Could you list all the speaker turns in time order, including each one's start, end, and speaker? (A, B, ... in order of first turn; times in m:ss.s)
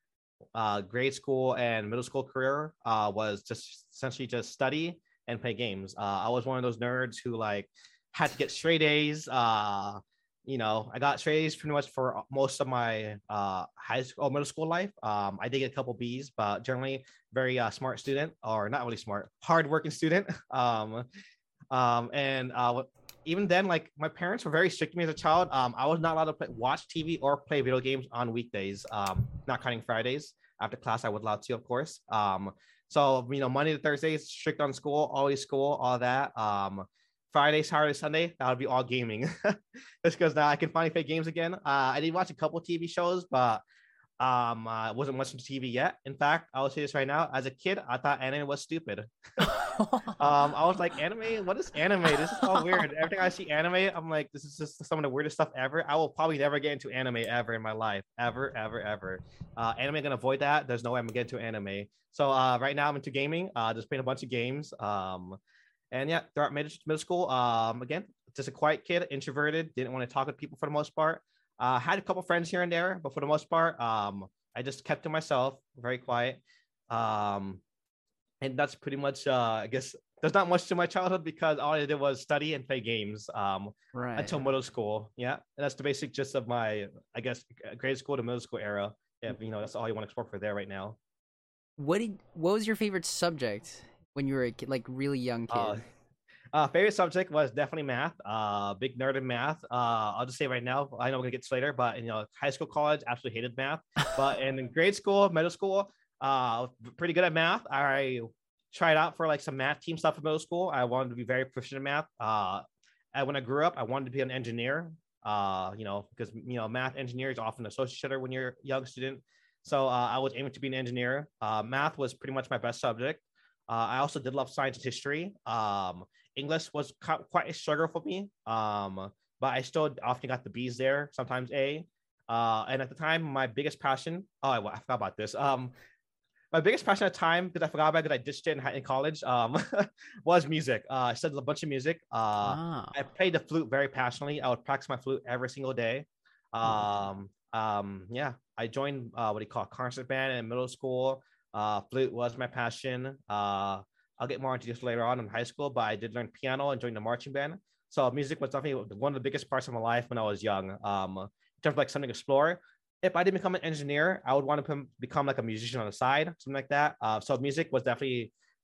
0:00.6-0:21.1 A
0:21.7-0:43.6 A
0:44.2-0:49.5 A
0:49.4-0:50.2 B
0:50.1-1:05.4 A
0:52.4-0:52.8 B
1:05.9-1:17.6 A
1:18.4-1:31.0 A
1:23.9-1:24.4 B
1:31.8-1:35.8 B
1:35.5-1:35.8 A
1:36.5-1:52.6 A
1:53.1-2:15.7 A
2:16.5-2:48.3 A
2:22.4-2:23.0 B